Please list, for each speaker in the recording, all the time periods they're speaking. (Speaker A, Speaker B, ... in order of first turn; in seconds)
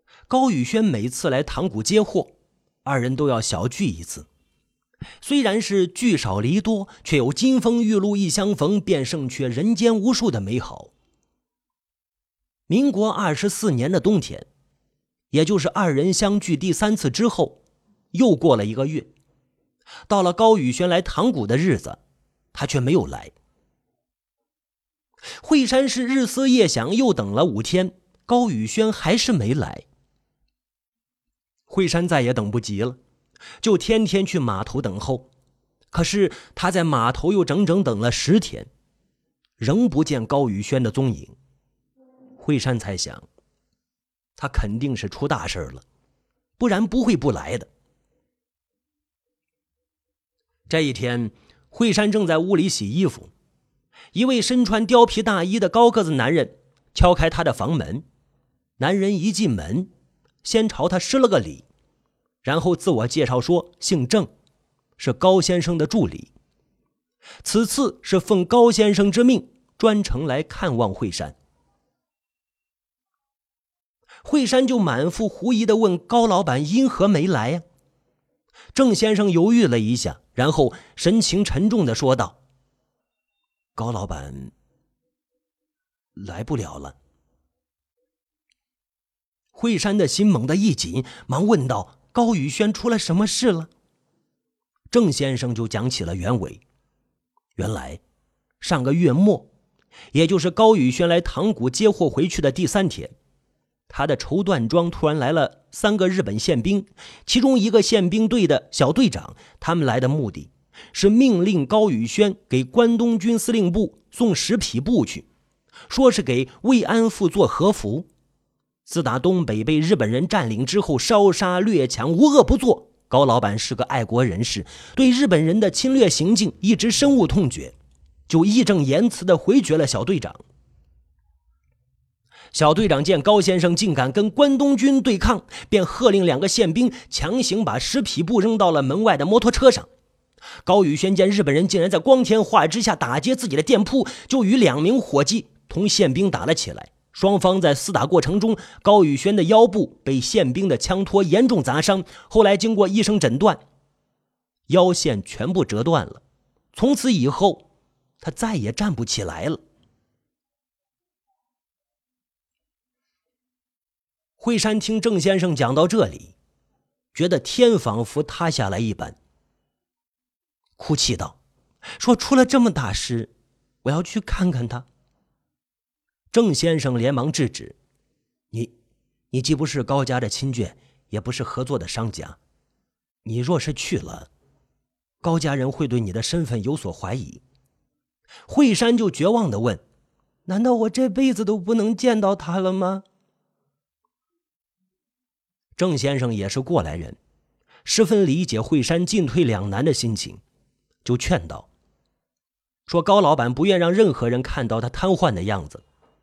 Speaker A: 0.3-4.3, 5.2-10.9, 12.7-14.5, 15.3-17.6, 18.1-19.1, 20.1-22.0, 22.5-23.3, 25.4-29.8, 31.7-33.0, 33.6-35.3, 35.9-38.7, 39.6-41.3, 42.4-43.2, 44.4-45.8, 46.6-47.7, 50.7-53.3, 54.1-58.0, 58.8-59.9, 60.4-61.7, 62.4-64.3, 65.0-66.3, 67.4-71.3, 74.2-77.6, 78.7-82.4, 83.8-84.5, 86.2-87.0, 89.5-93.7, 94.9-96.6, 97.5-98.0, 98.6-99.5, 100.1-103.1, 103.9-115.3, 115.9-118.1, 118.8-127.7, 128.3-130.4, 132.5-139.9, 140.6-153.6, 154.7-156.2, 156.7-157.7, 158.2-159.6, 164.4-166.3, 167.1-169.2, 170.8-171.4, 172.0-173.3, 173.8-174.9, 176.3-177.8, 179.3-182.4, 183.2-184.3, 185.2-187.4, 188.5-189.8, 190.4-193.0, 195.8-197.2, 197.8-200.4, 201.0-201.7, 202.9-205.8